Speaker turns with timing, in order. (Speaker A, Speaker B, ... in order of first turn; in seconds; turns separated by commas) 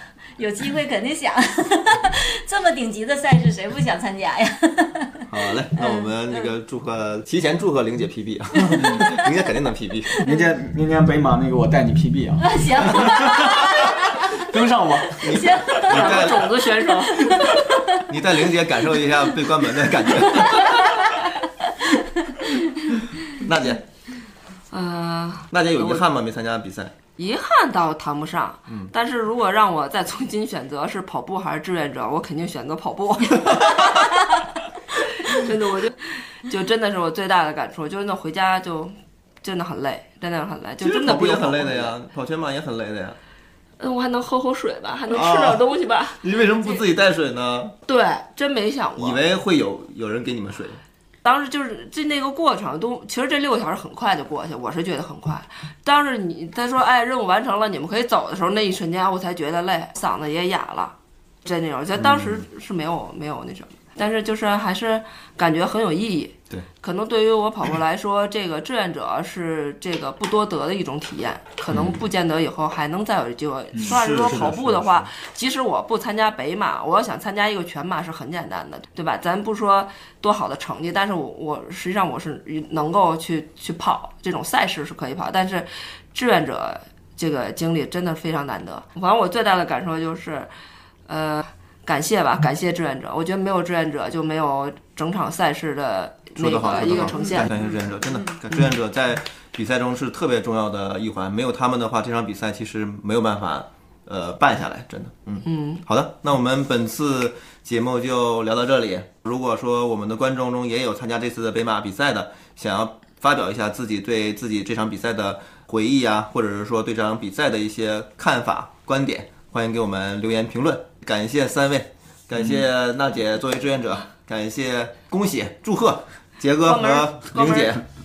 Speaker A: 0.4-6.5, Speaker B: 5.3-10.2, Speaker C: 8.8-9.1, Speaker C: 10.2-16.2, Speaker A: 12.4-14.4, Speaker A: 15.2-16.0, Speaker B: 15.2-16.5, Speaker D: 15.8-17.5, Speaker A: 17.1-18.0, Speaker B: 18.0-21.1, Speaker A: 20.4-21.1, Speaker A: 21.9-23.1, Speaker B: 23.3-23.8, Speaker D: 24.7-26.0, Speaker B: 25.5-26.9, Speaker D: 27.2-34.4, Speaker D: 35.0-42.0, Speaker B: 40.8-43.2, Speaker D: 43.8-46.2, Speaker B: 45.1-45.6, Speaker B: 46.2-47.7, Speaker D: 47.9-49.2, Speaker B: 49.0-50.8, Speaker D: 51.2-90.5, Speaker B: 62.0-62.4, Speaker B: 71.7-72.0, Speaker B: 73.8-75.1, Speaker D: 91.1-97.5, Speaker B: 96.4-127.8, Speaker D: 105.5-105.8, Speaker D: 126.6-127.8